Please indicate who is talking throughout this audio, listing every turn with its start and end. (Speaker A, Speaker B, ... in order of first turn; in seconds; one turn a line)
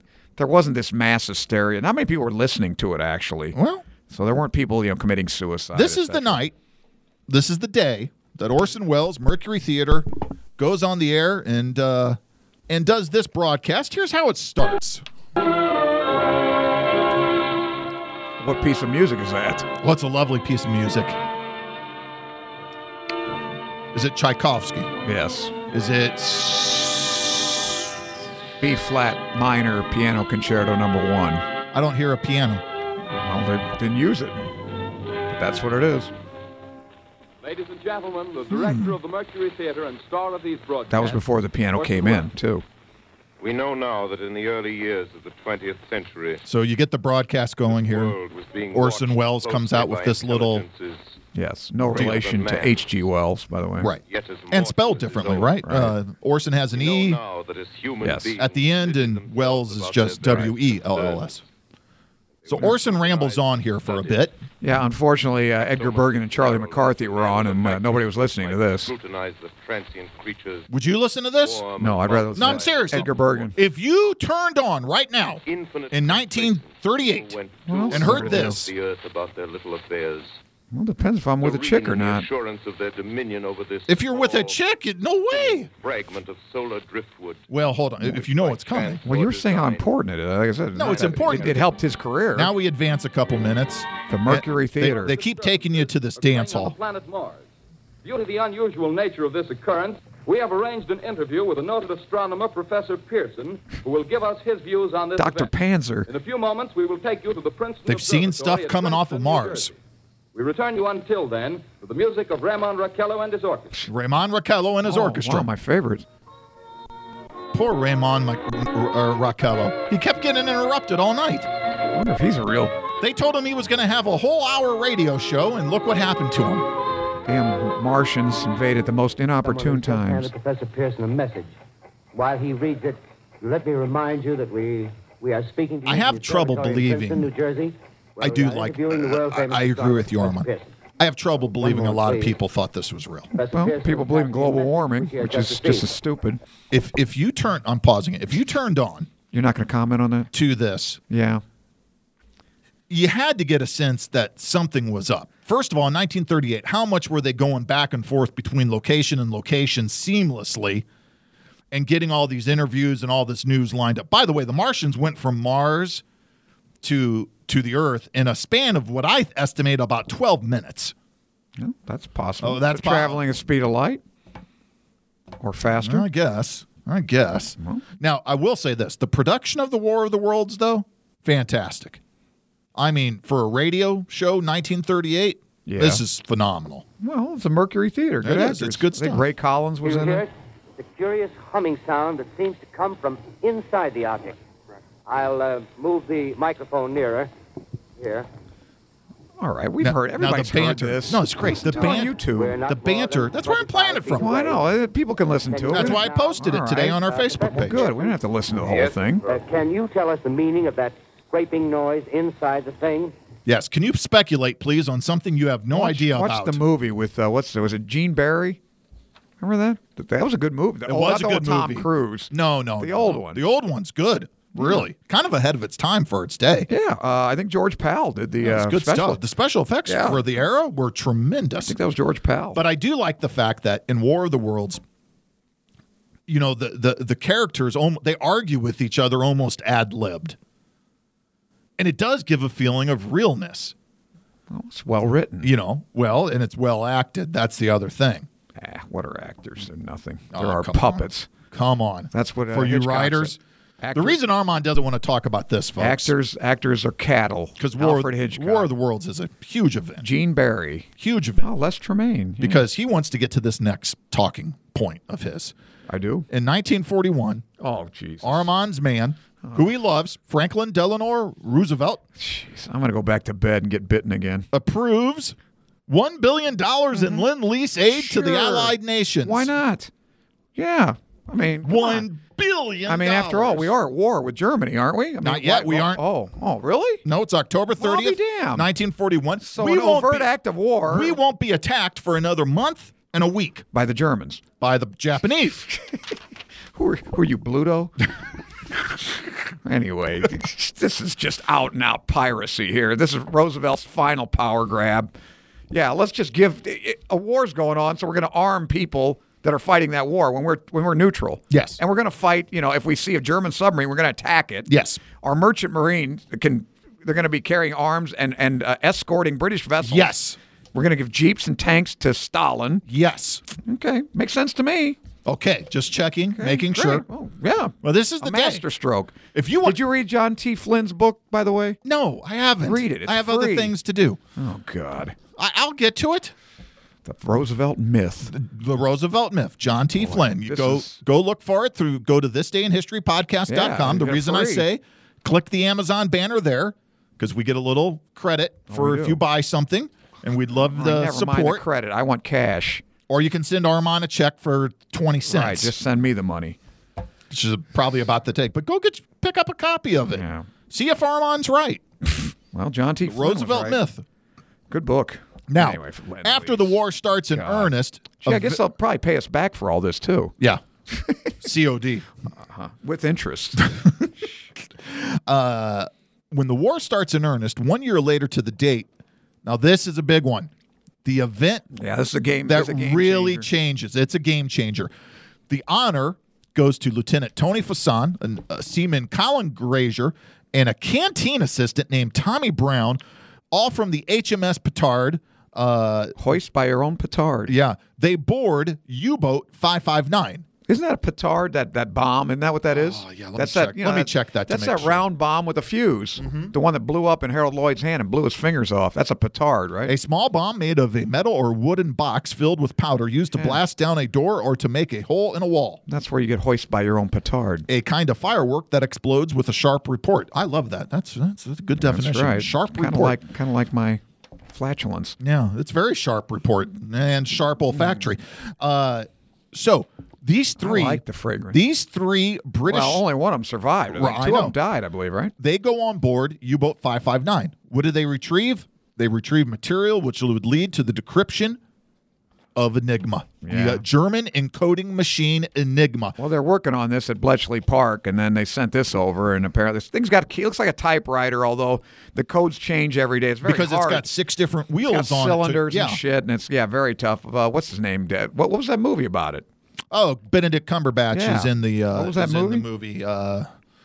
Speaker A: 0.4-3.6
Speaker B: 3.5-3.9
Speaker A: 4.1-6.4
Speaker B: 5.7-6.5
Speaker B: 7.3-15.0
Speaker A: 18.4-19.7
Speaker B: 19.8-21.2
Speaker B: 23.9-24.9
Speaker A: 25.1-25.6
Speaker B: 25.7-27.4
Speaker A: 28.6-31.4
Speaker B: 31.7-32.6
Speaker A: 33.2-34.5
Speaker A: 35.3-36.1
Speaker C: 37.4-41.2
Speaker B: 38.5-39.0
Speaker A: 40.9-42.6
Speaker C: 41.8-42.3
Speaker D: 43.4-46.4
Speaker B: 46.5-48.2
Speaker D: 47.7-51.2
Speaker B: 48.7-50.6
Speaker A: 51.4-53.9
Speaker D: 51.8-52.9
Speaker B: 53.8-57.2
Speaker D: 54.1-55.6
Speaker A: 55.6-56.0
Speaker D: 56.7-61.3
Speaker A: 58.0-58.3
Speaker B: 58.4-61.4
Speaker D: 62.4-64.3
Speaker B: 62.5-64.4
Speaker A: 64.6-68.9
Speaker D: 65.7-70.7
Speaker B: 70.7-71.6
Speaker D: 71.4-73.5
Speaker A: 71.8-73.6
Speaker B: 72.3-77.3
Speaker D: 75.5-80.4
Speaker A: 77.7-78.6
Speaker B: 77.9-78.7
Speaker A: 80.7-82.3
Speaker D: 81.4-84.6
Speaker B: 83.9-85.7
Speaker D: 85.3-89.9
Speaker B: 87.5-89.0
Speaker A: 89.0-92.5
Speaker B: 90.8-91.6
Speaker D: 90.8-91.7
Speaker B: 92.3-96.8
Speaker A: 94.1-95.1
Speaker C: 94.8-97.5
Speaker C: 98.0-105.5
Speaker A: 105.2-106.1
Speaker C: 106.1-109.8
Speaker B: 107.9-109.7
Speaker C: 110.3-113.8
Speaker B: 113.9-115.5
Speaker A: 114.8-116.1
Speaker B: 117.5-121.5
Speaker A: 121.9-122.8
Speaker B: 123.0-126.7
Speaker A: 127.3-130.3
Speaker E: 129.4-131.6
Speaker E: 132.1-140.7
Speaker B: 135.8-137.3
Speaker B: 138.2-143.3
Speaker E: 141.6-142.4
Speaker E: 143.3-145.9
Speaker A: 143.5-146.4
Speaker B: 146.7-149.1
Speaker A: 149.3-150.3
Speaker B: 150.3-151.0
Speaker A: 151.1-151.4
Speaker B: 152.9-160.8
Speaker B: 161.7-166.0
Speaker B: 166.8-170.9
Speaker A: 171.6-174.0
Speaker B: 172.4-173.2
Speaker A: 175.4-176.1
Speaker B: 175.8-182.0
Speaker B: 182.8-186.8
Speaker A: 185.7-186.0
Speaker A: 187.0-190.3
Speaker B: 188.2-189.2
Speaker E: 189.8-194.4
Speaker E: 195.1-197.3
Speaker E: 198.0-198.3
Speaker A: 199.4-202.6
Speaker B: 199.8-204.4
Speaker E: 201.8-204.7
Speaker A: 204.1-209.2
Speaker E: 205.5-208.2
Speaker B: 205.7-207.8
Speaker D: 208.6-209.4
Speaker E: 209.3-213.1
Speaker B: 213.5-216.6
Speaker A: 215.7-218.6
Speaker A: 219.4-223.4
Speaker B: 220.8-226.7
Speaker A: 224.6-224.9
Speaker A: 226.7-229.2
Speaker B: 228.4-231.8
Speaker A: 229.9-230.2
Speaker A: 231.6-232.6
Speaker B: 232.5-234.8
Speaker B: 236.3-240.4
Speaker B: 241.8-243.7
Speaker A: 244.5-245.5
Speaker B: 245.4-248.3
Speaker A: 248.6-251.3
Speaker B: 250.3-253.4
Speaker A: 252.1-254.2
Speaker B: 253.9-256.1
Speaker A: 255.8-258.7
Speaker B: 257.6-260.1
Speaker A: 260.0-260.9
Speaker B: 261.0-261.5
Speaker A: 261.4-262.7
Speaker B: 262.4-265.5
Speaker A: 265.9-266.3
Speaker B: 266.3-267.4
Speaker A: 267.6-268.5
Speaker B: 268.2-272.0
Speaker A: 269.4-269.7
Speaker A: 272.2-274.5
Speaker B: 274.5-275.4
Speaker B: 275.9-279.5
Speaker A: 276.9-277.2
Speaker A: 277.9-279.9
Speaker A: 280.6-282.1
Speaker B: 281.6-283.7
Speaker A: 282.9-287.0
Speaker B: 285.2-286.0
Speaker B: 287.1-290.3
Speaker A: 287.8-288.7
Speaker A: 289.4-291.2
Speaker B: 290.9-293.6
Speaker A: 293.7-294.4
Speaker B: 294.6-295.7
Speaker A: 295.7-296.2
Speaker A: 296.7-297.9
Speaker A: 299.6-305.1
Speaker A: 305.7-314.7
Speaker B: 311.5-311.8
Speaker B: 314.7-315.0
Speaker A: 315.2-320.1
Speaker B: 319.8-320.4
Speaker A: 320.7-322.9
Speaker B: 322.9-323.4
Speaker A: 323.6-325.0
Speaker B: 325.2-327.1
Speaker A: 326.4-331.8
Speaker B: 327.8-328.6
Speaker B: 329.3-329.8
Speaker B: 331.8-334.2
Speaker A: 332.6-333.7
Speaker A: 334.4-335.2
Speaker B: 335.4-336.3
Speaker A: 337.1-338.3
Speaker B: 338.3-351.6
Speaker A: 340.0-341.0
Speaker A: 343.5-344.7
Speaker A: 348.7-349.2
Speaker A: 350.7-352.8
Speaker B: 353.1-355.7
Speaker A: 355.3-356.6
Speaker B: 357.3-361.8
Speaker A: 360.1-360.5
Speaker A: 362.1-363.8
Speaker B: 363.0-364.0
Speaker A: 364.7-366.8
Speaker B: 365.5-368.6
Speaker A: 367.3-370.3
Speaker A: 370.9-371.3
Speaker B: 371.4-372.1
Speaker A: 372.4-373.7
Speaker B: 373.7-374.1
Speaker B: 374.8-378.9
Speaker B: 379.4-380.5
Speaker B: 381.1-381.7
Speaker A: 381.7-383.5
Speaker B: 382.4-384.9
Speaker B: 385.5-393.0
Speaker B: 393.5-396.2
Speaker A: 396.2-397.5
Speaker B: 397.5-400.4
Speaker A: 400.7-409.9
Speaker B: 402.7-405.0
Speaker B: 406.2-406.5
Speaker B: 409.9-415.8
Speaker A: 413.4-413.6
Speaker A: 415.9-417.7
Speaker B: 417.7-423.2
Speaker A: 421.8-425.2
Speaker B: 425.2-433.0
Speaker A: 427.7-428.1
Speaker A: 430.6-431.6
Speaker A: 432.7-435.3
Speaker B: 433.9-434.6
Speaker B: 435.4-441.6
Speaker B: 442.6-446.2
Speaker A: 443.4-443.8
Speaker A: 446.2-454.1
Speaker B: 453.4-456.0
Speaker A: 454.9-459.4
Speaker B: 459.9-463.5
Speaker A: 461.1-462.7